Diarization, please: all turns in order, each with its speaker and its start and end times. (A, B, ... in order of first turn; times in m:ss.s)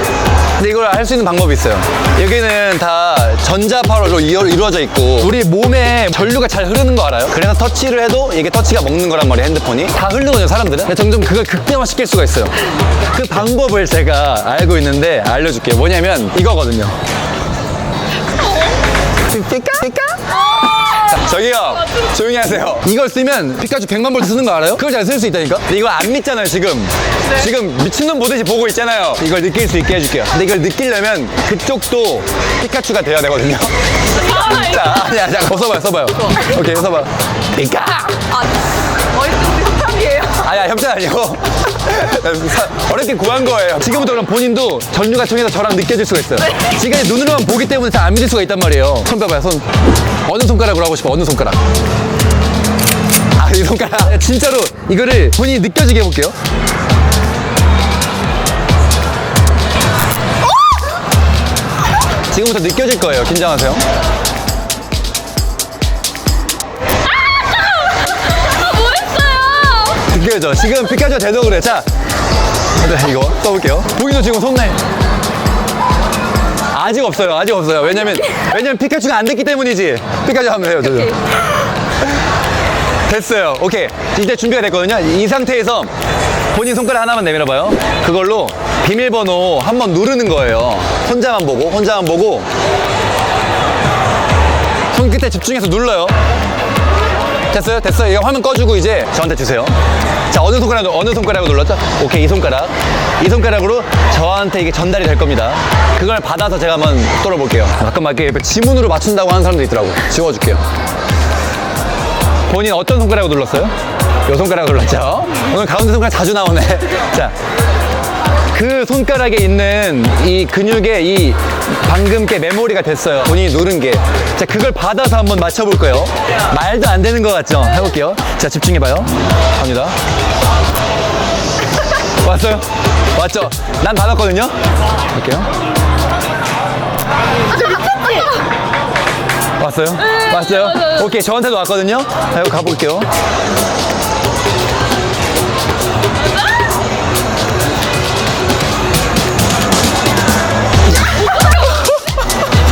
0:00.6-0:17.0 A
0:19.2-0:20.4 A
0:20.6-0:21.1 B
0:20.9-0:38.3 A
0:34.4-0:34.9 B
0:39.1-0:40.4 B
0:40.3-0:49.7 A
0:50.3-0:51.6 A
0:53.4-0:56.4 A
1:02.3-1:03.8 A
1:07.5-1:07.9 B
1:08.4-1:10.0 B
1:10.0-1:11.9 A
1:12.8-1:14.8 A
1:16.7-1:21.3 A
1:23.1-1:25.9 A
1:26.5-1:32.5 A
1:34.9-1:36.2 A
1:37.5-1:39.8 A
1:40.3-1:50.6 A
1:52.5-1:53.7 A
1:54.3-1:57.4 A
1:58.5-2:10.0 A
2:12.2-2:14.6 A
2:15.1-2:15.5 A
2:17.8-2:18.2 B
2:19.6-2:23.1 A
2:31.3-2:31.8 A